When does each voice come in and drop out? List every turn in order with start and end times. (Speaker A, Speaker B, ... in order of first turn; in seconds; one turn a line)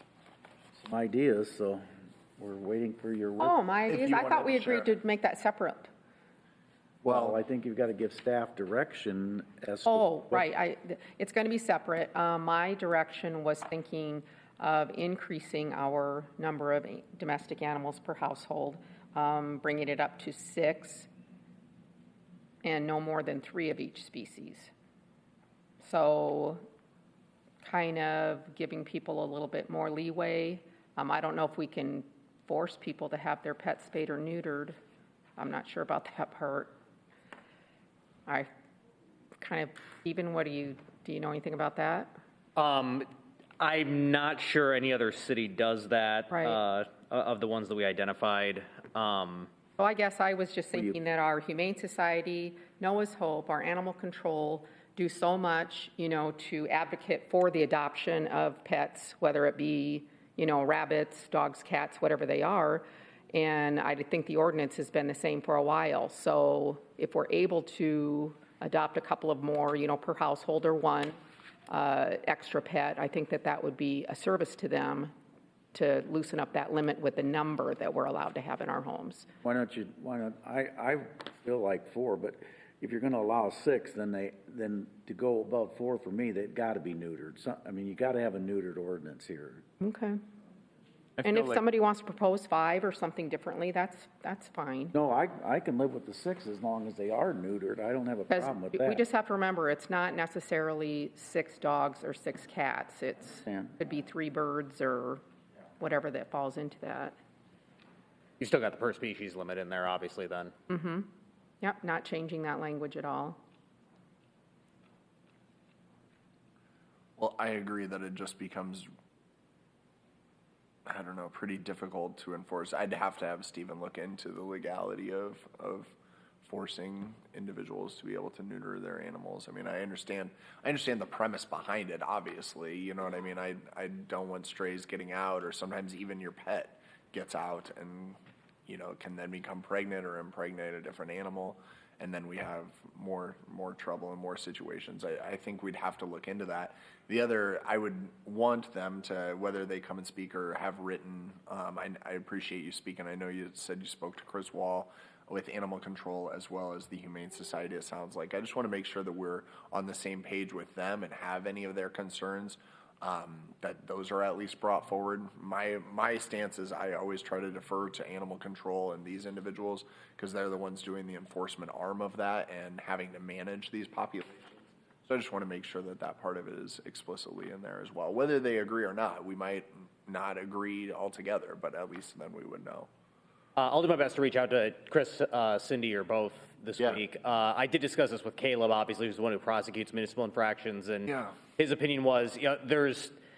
Speaker A: 0.8-1.9
Speaker A: 2.4-3.6
Speaker B: 3.4-5.9
Speaker C: 3.9-4.9
Speaker A: 7.0-10.4
Speaker C: 7.1-7.4
Speaker B: 9.8-21.1
Speaker B: 22.6-24.7
Speaker B: 25.8-26.6
Speaker B: 27.6-34.8
Speaker B: 35.4-36.8
Speaker B: 39.4-42.1
Speaker D: 42.6-43.1
Speaker D: 43.6-49.5
Speaker B: 46.3-46.6
Speaker B: 49.8-71.2
Speaker B: 71.7-75.1
Speaker B: 75.7-79.3
Speaker A: 79.4-89.7
Speaker B: 89.8-90.2
Speaker B: 91.2-95.0
Speaker A: 94.9-99.0
Speaker B: 98.3-105.2
Speaker A: 103.5-103.8
Speaker B: 105.8-107.2
Speaker D: 108.4-110.5
Speaker B: 110.7-111.1
Speaker B: 111.6-113.4
Speaker C: 117.2-118.9
Speaker C: 120.9-182.9
Speaker D: 183.6-193.2
Speaker C: 191.1-191.4